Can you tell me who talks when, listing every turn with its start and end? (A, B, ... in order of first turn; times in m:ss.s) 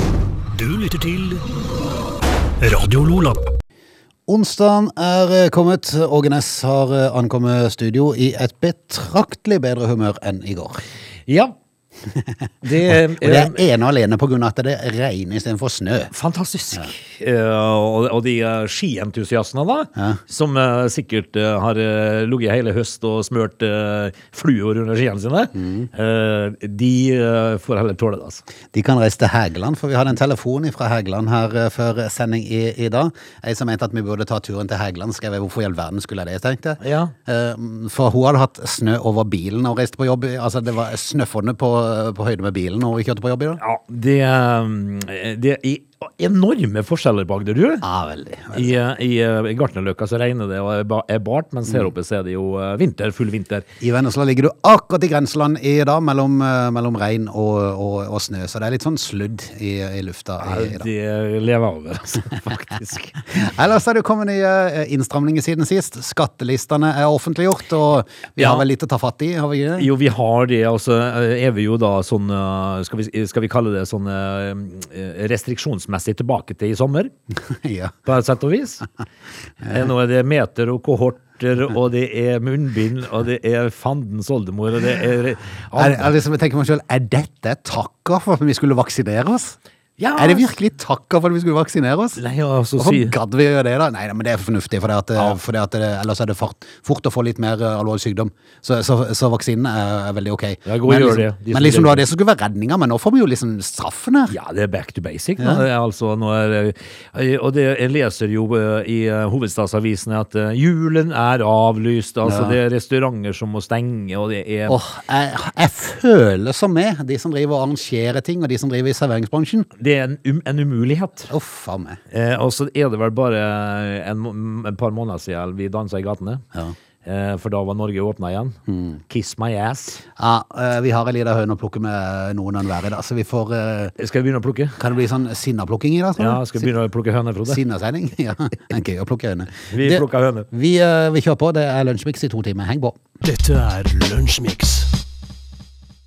0:00.5-0:01.4 A
0:02.6-0:03.4 A
0:04.3-0:10.8 B
0:11.2-0:11.6 C
0:12.1-0:16.1 B
0:12.6-0:13.6 C
0:16.1-0:28.4 C
0:25.6-0:25.9 B
0:28.7-0:43.6 B
0:36.8-0:37.1 C
0:43.6-0:47.8 C
0:47.8-0:48.8 B
0:48.5-0:53.7 C
0:53.8-1:00.9 B
1:00.4-1:03.2 C
1:03.2-1:09.9 B
1:08.4-1:08.6 C
1:09.8-1:17.1 C
1:17.5-1:18.0 B
1:18.0-1:18.9 C
1:19.6-1:26.1 C
1:25.7-1:29.6 B
1:30.0-1:30.5 C
1:30.2-1:32.2 B
1:32.2-1:33.2 C
1:32.8-1:44.3 B
1:40.6-1:42.0 C
1:44.3-1:54.8 C
1:45.4-1:45.6 B
1:52.2-1:52.6 B
1:54.7-1:59.7 B
1:59.8-2:01.3 C
2:01.3-2:02.0 B
2:02.1-2:06.4 C
2:07.0-2:10.0 C
2:08.7-2:09.0 B
2:10.1-2:13.9 B
2:14.0-2:14.8 C
2:14.8-2:16.7 B
2:16.2-2:17.6 C
2:17.4-2:23.0 B
2:19.7-2:20.5 C
2:23.2-2:24.9 A